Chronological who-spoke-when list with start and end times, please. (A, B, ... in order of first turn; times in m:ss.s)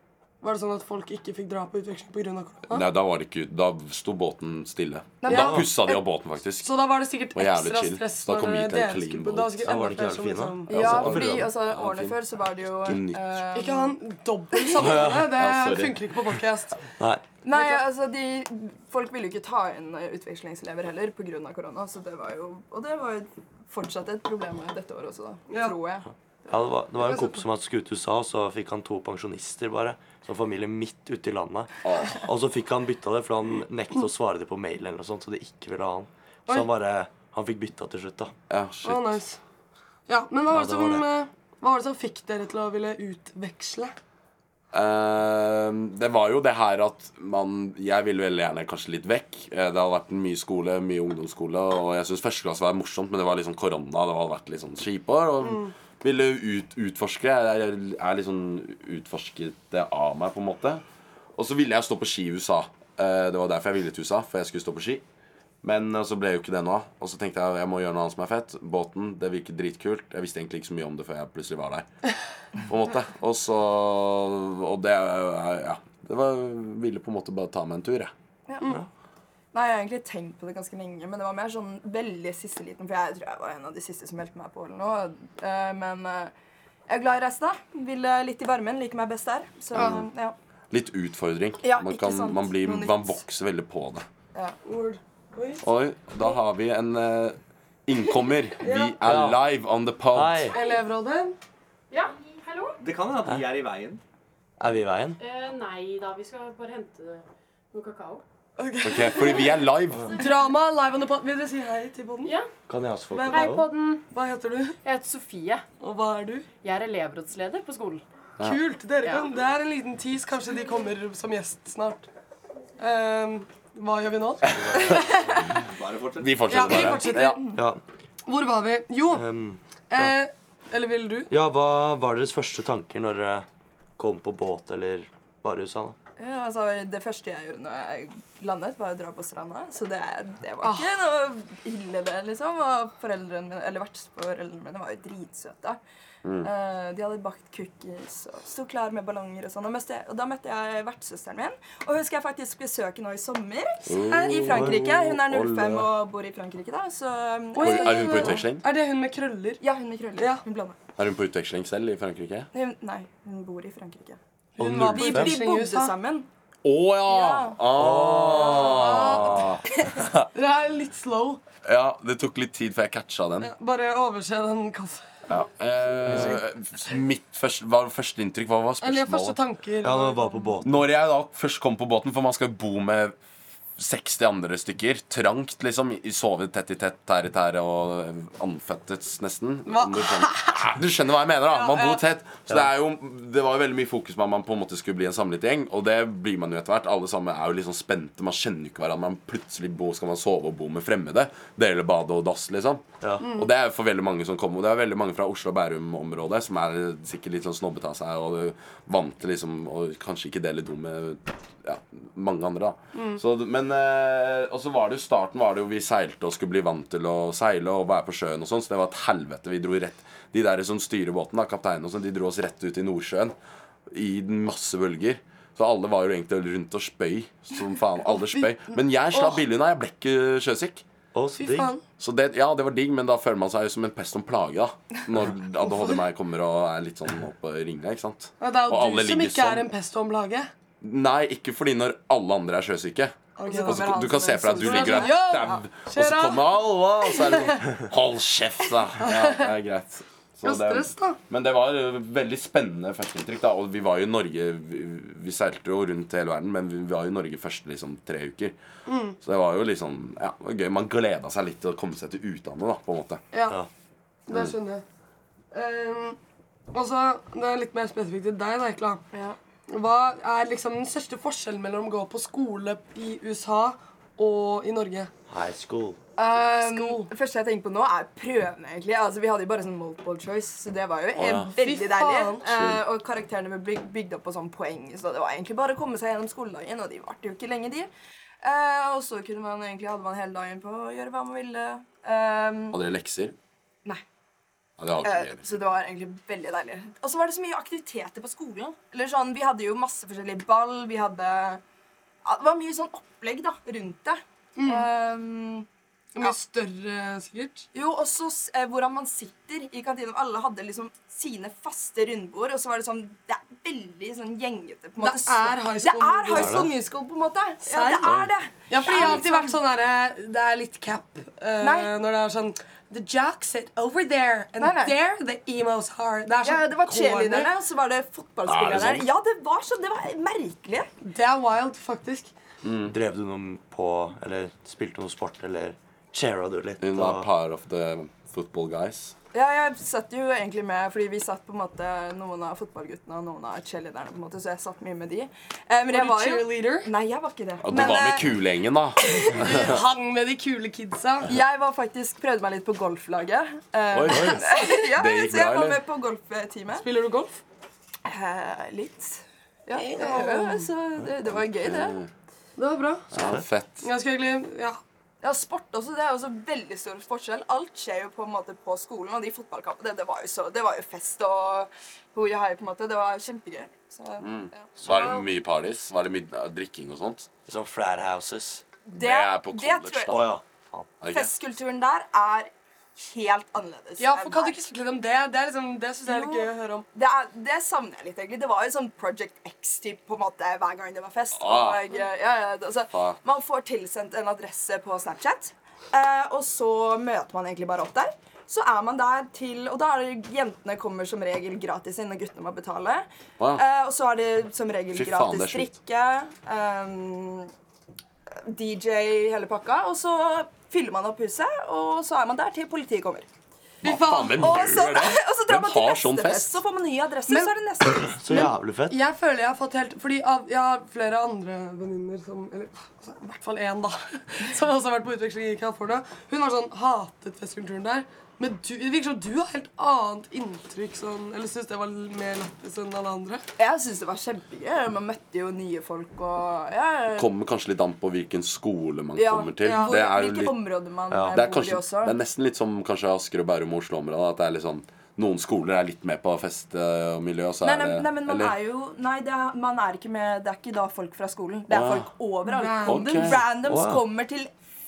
0:00.4-0:02.9 A
0:02.7-0:06.8 B
0:05.2-0:06.0 C
0:05.3-0:05.7 A
0:06.6-0:10.8 A
0:07.3-0:09.7 B
0:09.6-0:11.5 D
0:10.7-0:14.0 C
0:10.7-0:12.2 B
0:12.8-0:13.4 B
0:13.6-0:16.8 A
0:14.6-0:14.9 C
0:14.8-0:16.1 B
0:14.8-0:15.3 D
0:17.0-0:17.2 D
0:17.4-0:26.1 C
0:17.5-0:17.8 A
0:25.5-0:25.8 A
0:26.5-0:38.3 D
0:27.0-0:27.4 A
0:31.8-0:32.2 B
0:38.5-0:39.2 B
0:38.8-0:39.4 A
0:40.1-0:43.9 A
0:40.5-0:41.0 D
0:44.7-1:00.8 B
0:55.4-0:55.7 A
1:01.4-1:05.0 B
1:05.6-1:11.9 B
1:12.6-1:18.1 B
1:18.5-1:18.8 C
1:19.5-1:26.3 C
1:26.9-1:30.4 C
1:29.8-1:30.1 B
1:30.7-1:34.0 B
1:31.6-1:33.2 C
1:34.7-1:35.6 A
1:35.6-1:40.5 B
1:38.6-1:39.0 A
1:39.0-1:39.4 D
1:40.1-1:40.6 D
1:40.5-1:41.4 A
1:40.6-1:40.8 E
1:41.9-1:42.8 E
1:42.8-1:44.0 F
1:44.6-1:45.2 D
1:45.2-1:48.2 E
1:48.6-1:49.6 A
1:48.8-1:50.1 B
1:50.2-1:52.4 A
1:52.7-1:53.7 D
1:53.1-1:54.8 A
1:53.3-1:53.7 E
1:54.8-1:55.6 E
1:55.8-1:56.5 A
1:56.6-1:58.0 E
1:58.4-2:02.1 A
2:02.8-2:05.4 A
2:04.6-2:05.2 D
2:05.7-2:06.8 F
2:06.2-2:07.4 B
2:06.5-2:07.4 A
2:07.1-2:07.6 C
2:07.6-2:07.8 D
2:08.2-2:09.2 A
2:09.1-2:10.2 D
2:09.9-2:11.3 A
2:11.3-2:13.5 D
2:14.0-2:16.0 D
2:16.2-2:25.8 C
2:20.6-2:20.9 A
2:26.2-2:26.5 B
2:26.4-2:38.4 C
2:33.9-2:35.9 B
2:34.1-2:34.6 A
2:34.5-2:34.8 D
2:37.5-2:39.6 A
2:37.6-2:38.7 B
2:39.6-2:40.8 C
2:41.0-2:42.5 B
2:42.5-2:44.2 C
2:44.6-2:45.9 A
2:44.6-2:45.4 D
2:44.9-2:46.3 C
2:46.6-2:50.3 B
2:47.1-2:47.6 C
2:47.8-2:48.7 D
2:48.4-2:49.2 C
2:48.4-2:49.5 A
2:50.4-2:51.4 A
2:51.6-2:53.5 B
2:53.4-2:55.0 A
2:55.3-2:59.4 B
2:58.8-3:00.4 A
2:59.8-3:00.8 D
3:00.6-3:03.2 B
3:03.8-3:43.3 B
3:09.7-3:10.6 A
3:11.5-3:12.0 A
3:23.2-3:23.5 A
3:33.0-3:33.2 A
3:43.9-3:50.8 B
3:48.2-3:48.6 A
3:49.1-3:49.4 A
3:51.1-3:51.7 D
3:51.4-3:51.8 A
3:52.0-3:59.7 B
3:58.4-4:00.5 A
4:00.8-4:18.6 B
4:03.4-4:06.4 A
4:03.5-4:05.6 C
4:07.2-4:07.6 A
4:09.0-4:09.5 A
4:10.4-4:11.2 A
4:18.9-4:19.2 A
4:19.2-4:23.2 B
4:23.3-4:23.6 A
4:24.3-4:24.8 A
4:24.3-4:24.6 B
4:25.5-4:26.2 A
4:26.7-4:29.0 A
4:29.7-4:35.1 A
4:35.3-4:36.0 D
4:36.2-4:47.9 C
4:36.2-4:37.1 A
4:41.2-4:41.5 B
4:41.6-4:42.5 A
4:42.5-4:42.8 B
4:48.4-4:52.8 C
4:52.7-4:53.4 B
4:54.8-4:55.5 B
4:55.0-5:01.6 C
5:02.2-5:05.7 C
5:04.6-5:04.9 A
5:06.2-5:07.7 A
5:07.7-5:19.6 C
5:15.0-5:16.7 A
5:16.3-5:16.7 D
5:17.7-5:18.1 A
5:18.7-5:27.5 A
5:21.6-5:21.9 C
5:24.6-5:25.0 C
5:26.4-5:30.9 C
5:28.5-5:29.1 B
5:31.0-5:32.3 A
5:32.6-5:32.9 B
5:32.9-5:37.3 D
5:36.8-5:39.2 B
5:39.3-5:48.4 C
5:45.9-5:46.9 A
5:47.6-5:49.8 B
5:49.1-5:49.7 C
5:49.1-5:51.3 A
5:51.3-5:56.9 C
5:53.9-5:55.8 B
5:56.8-5:57.4 A
5:58.0-6:02.0 C
5:59.8-6:00.7 A
6:01.3-6:02.1 B
6:02.6-6:03.1 A
6:03.1-6:03.9 B
6:03.8-6:04.8 A
6:05.2-6:15.0 C
6:14.2-6:17.3 B
6:17.5-6:18.6 D
6:18.9-6:20.2 C
6:19.0-6:20.3 B
6:20.1-6:20.9 D
6:21.0-6:21.3 B
6:21.1-6:24.6 C
6:24.0-6:26.9 A
6:26.1-6:47.5 C
6:31.4-6:31.9 B
6:32.9-6:33.2 B
6:44.9-6:45.7 B
6:48.5-6:53.3 C
6:53.8-6:54.6 A
6:53.8-6:56.6 B
6:54.4-6:58.5 C
6:58.2-6:59.0 D
6:58.2-7:13.4 A
7:13.6-7:17.3 C
7:17.2-7:20.6 B
7:19.2-7:22.2 C
7:19.6-7:20.0 A
7:21.1-7:21.4 D
7:21.3-7:28.6 B
7:27.6-7:34.5 C
7:31.7-7:32.1 B
7:32.4-7:33.3 A
7:32.8-7:33.4 B
7:33.6-7:34.0 D